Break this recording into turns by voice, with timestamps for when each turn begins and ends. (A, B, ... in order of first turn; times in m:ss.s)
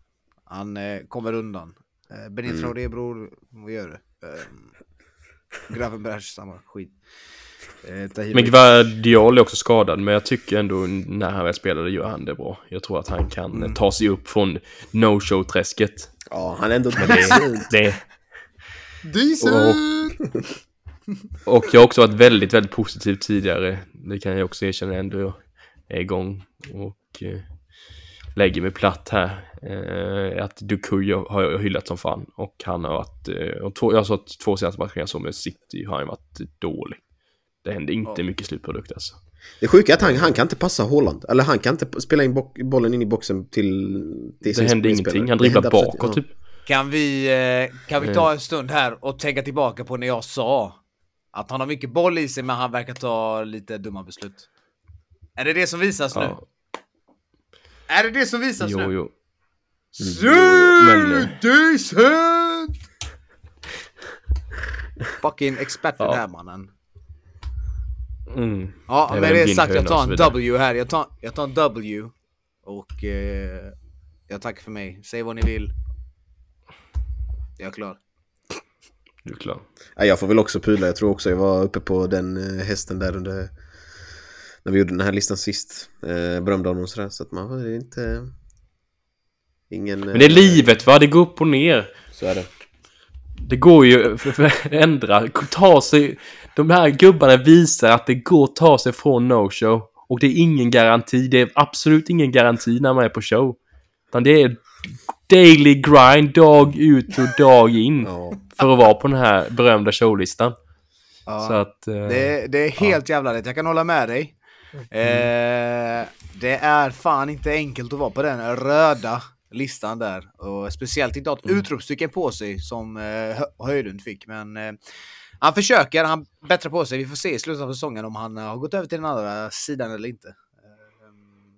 0:00.5-0:04.7 A
0:02.5-0:02.7 B
0:05.7-0:07.0 A
0:07.8-0:08.6 A
0:08.3-0:16.2 C
0:13.5-0:13.8 A
0:16.3-0:17.5 B
0:17.0-0:18.0 C
0:17.1-0:17.4 A
0:19.0-0:20.2 A
0:19.4-0:19.8 C
0:21.5-0:27.5 C
0:28.4-0:37.0 C
0:37.6-0:39.2 C
0:39.6-0:46.2 B
0:44.4-0:46.3 C
0:46.7-0:50.8 A
0:48.0-0:48.3 C
0:51.3-0:54.5 A
0:55.4-0:56.4 A
0:56.1-0:56.4 C
0:57.9-0:58.9 A
0:58.6-0:59.1 C
1:00.0-1:02.8 A
1:00.0-1:01.4 C
1:05.2-1:06.7 A
1:08.3-1:10.4 C
1:08.9-1:12.1 A
1:12.6-1:13.8 A
1:14.3-1:15.7 A
1:17.6-1:18.0 A
1:19.2-1:19.6 C
1:20.0-1:23.5 B
1:24.6-1:28.3 B
1:29.7-1:30.7 B
1:30.1-1:31.9 C
1:32.1-1:32.5 B
1:33.4-1:43.6 C
1:44.1-1:50.6 C
1:48.1-1:48.4 B
1:51.3-1:54.3 A
1:51.4-1:52.3 C
1:54.9-2:04.8 A
2:05.4-2:10.4 A